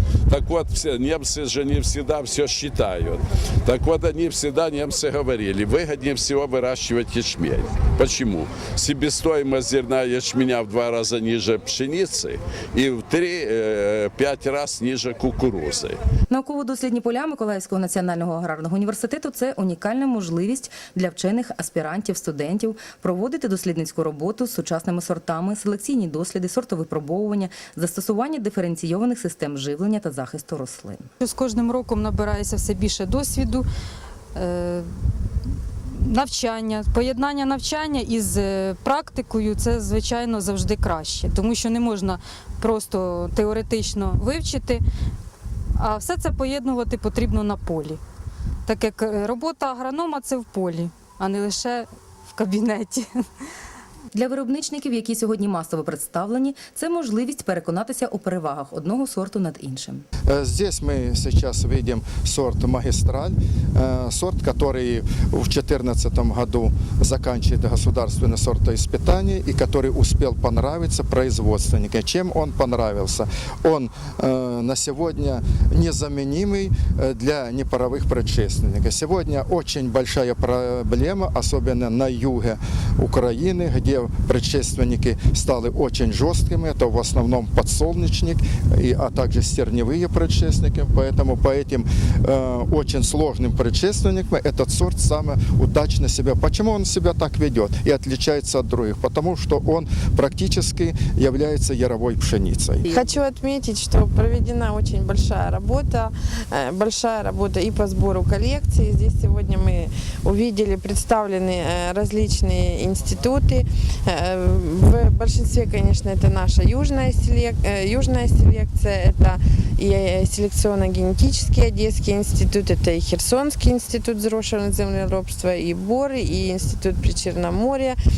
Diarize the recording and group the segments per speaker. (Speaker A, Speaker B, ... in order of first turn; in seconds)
Speaker A: 0.2-16.0
Speaker B: 16.3-31.1, 54.1-60.0
Speaker C: 31.2-33.6, 34.3-35.0, 35.9-44.8, 45.8-48.0, 48.7-53.2
Speaker D: 60.3-102.9
Speaker E: 102.9-128.0